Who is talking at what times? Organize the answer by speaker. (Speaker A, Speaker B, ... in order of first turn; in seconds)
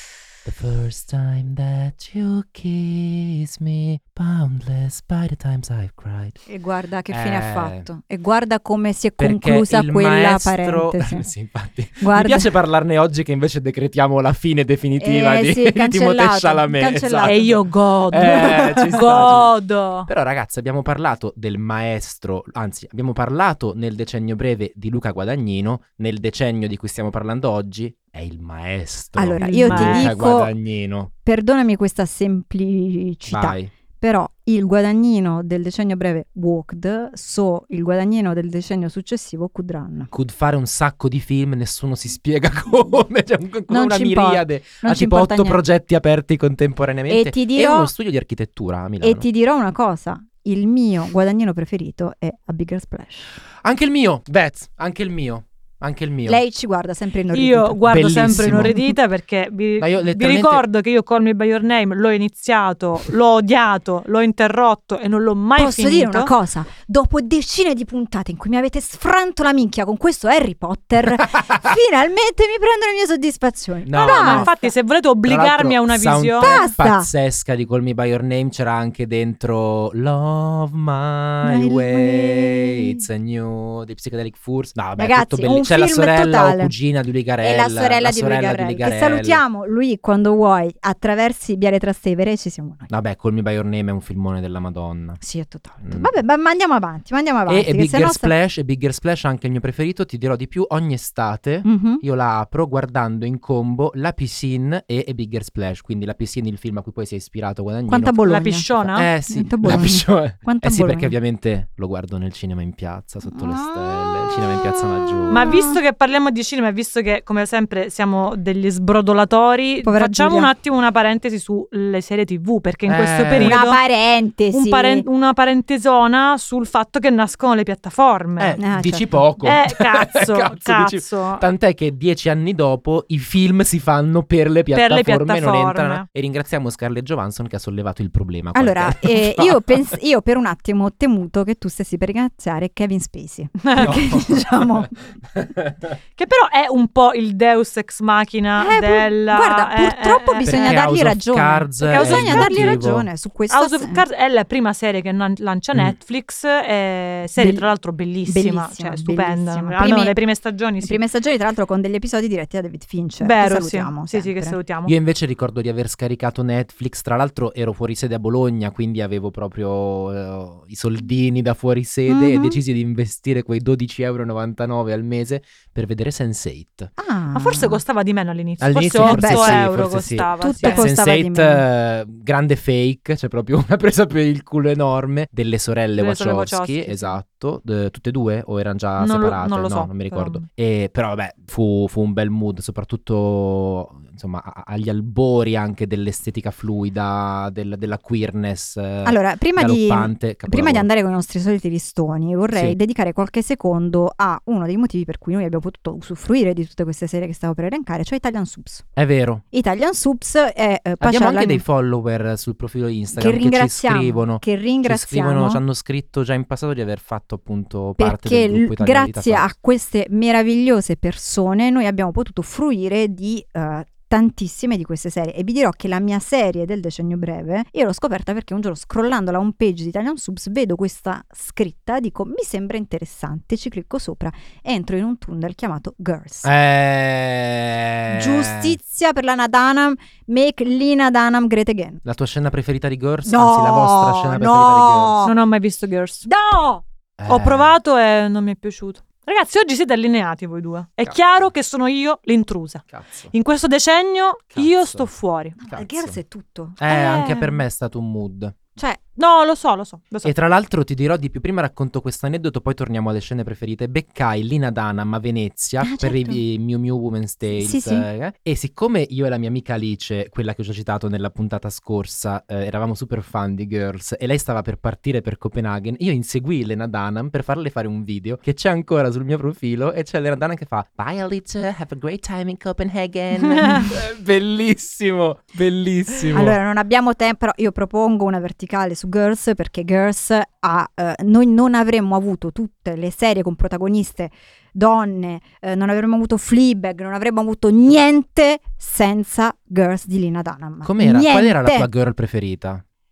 Speaker A: 0.4-6.4, 7.1-7.9, 9.2-19.5, 20.1-31.1, 33.3-33.7, 40.1-49.2, 53.6-56.4, 57.8-58.9, 59.8-60.6, 71.3-71.6, 73.8-74.5, 75.2-89.4, 92.9-95.2, 95.8-96.1, 97.5-115.6, 122.9-123.6, 128.4-139.8, 143.8-144.5, 145.3-145.9, 150.4-153.1, 164.8-176.9, 178.6-200.9, 208.9-209.4, 211.0-219.5, 236.4-238.8, 242.1-245.3, 247.2-247.7, 252.9-253.3, 254.5-255.1, 255.6-256.2, 256.8-258.6, 260.2-286.6, 300.8-302.8
Speaker B: 6.5-11.3, 12.0-12.5, 15.0-17.6, 18.2-18.8, 29.2-30.5, 31.2-40.1, 43.7-45.6, 47.1-47.9, 49.0-53.4, 56.2-57.8, 65.5-74.7, 76.4-77.1, 81.4-83.0, 85.0-86.7, 87.4-92.9, 95.2-98.3, 101.6-102.0, 107.9-108.7, 109.3-111.1, 113.3-115.8, 119.8-120.5, 123.4-125.0, 128.6-129.2, 138.5-144.9, 148.6-154.0, 157.4-157.7, 158.2-160.2, 160.8-164.6, 172.1-172.6, 177.0-177.8, 178.9-179.7, 180.4-181.6, 199.0-208.8, 209.5-211.6, 213.2-215.6, 218.0-236.5, 238.1-242.0, 243.2-245.3, 246.2-246.8, 255.6-256.8, 265.8-266.4, 267.5-268.1, 286.3-301.9
Speaker C: 17.2-20.1, 29.4-30.1, 57.3-66.3, 73.9-76.6, 108.2-109.1, 115.3-123.8, 124.5-128.6, 129.4-131.4, 134.7-136.1, 143.6-143.9, 146.2-150.8, 151.8-152.8, 153.5-161.0, 163.2-164.9, 177.3-180.8, 186.0-187.1, 189.0-190.4, 245.2-246.3, 247.3-255.6, 256.9-257.6, 259.2-260.3